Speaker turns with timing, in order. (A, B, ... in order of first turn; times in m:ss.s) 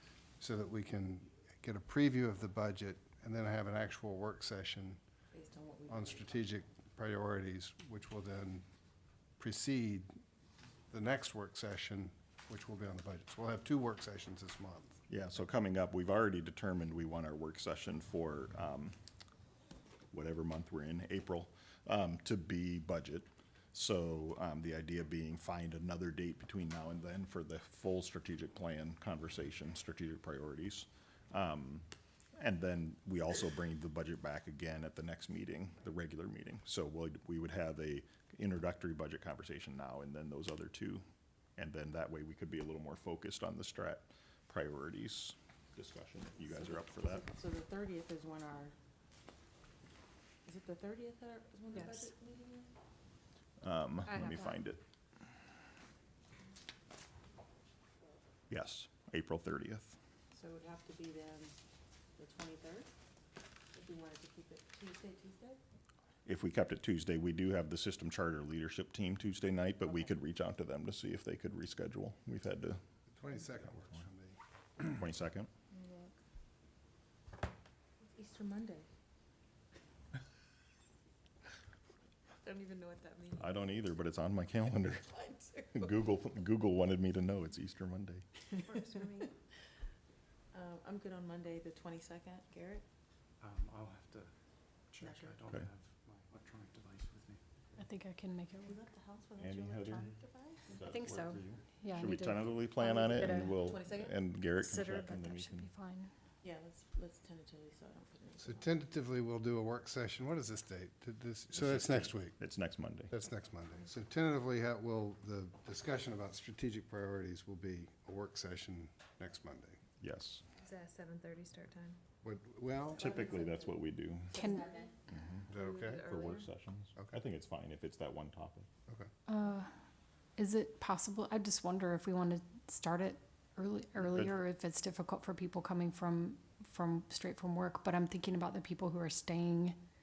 0:00.4-0:05.0 A
0:05.3-0:06.4 B
0:05.9-0:08.6 A
0:09.4-0:10.1 A
0:10.9-0:15.0 A
0:15.1-0:19.0 C
0:20.1-0:41.0 C
0:41.6-0:47.3 C
0:46.5-0:48.8 B
0:50.4-0:52.7 B
0:53.6-0:54.8 C
0:54.1-0:54.6 D
0:58.5-1:00.0 C
1:00.3-1:01.6 B
1:02.2-1:02.9 B
1:03.7-1:05.6 B
1:06.3-1:12.8 C
1:13.1-1:14.9 A
1:14.8-1:15.5 C
1:15.7-1:16.1 B
1:18.0-1:18.9 B
1:22.4-1:23.5 B
1:23.4-1:25.1 C
1:25.1-1:25.9 B
1:25.7-1:28.2 C
1:28.7-1:29.2 E
1:30.5-1:32.8 B
1:33.4-1:34.3 F
1:34.9-1:37.4 F
1:35.0-1:35.5 B
1:37.8-1:38.8 D
1:38.6-1:40.8 B
1:39.4-1:40.1 C
1:40.7-1:45.7 C
1:40.9-1:43.6 D
1:43.4-1:44.2 B
1:44.6-1:46.1 D
1:46.4-1:48.7 B
1:48.4-1:52.4 A
1:51.5-1:53.1 C
1:53.1-1:59.8 A
2:00.0-2:00.4 C
2:00.6-2:02.0 E
2:02.2-2:03.2 A
2:03.0-2:04.3 C
2:03.0-2:03.8 B
2:04.3-2:04.9 B
2:04.4-2:04.7 D
2:05.1-2:08.7 C
2:05.5-2:06.1 A
2:05.5-2:06.5 B
2:09.3-2:09.7 D
2:10.4-2:19.8 D
2:14.0-2:14.3 C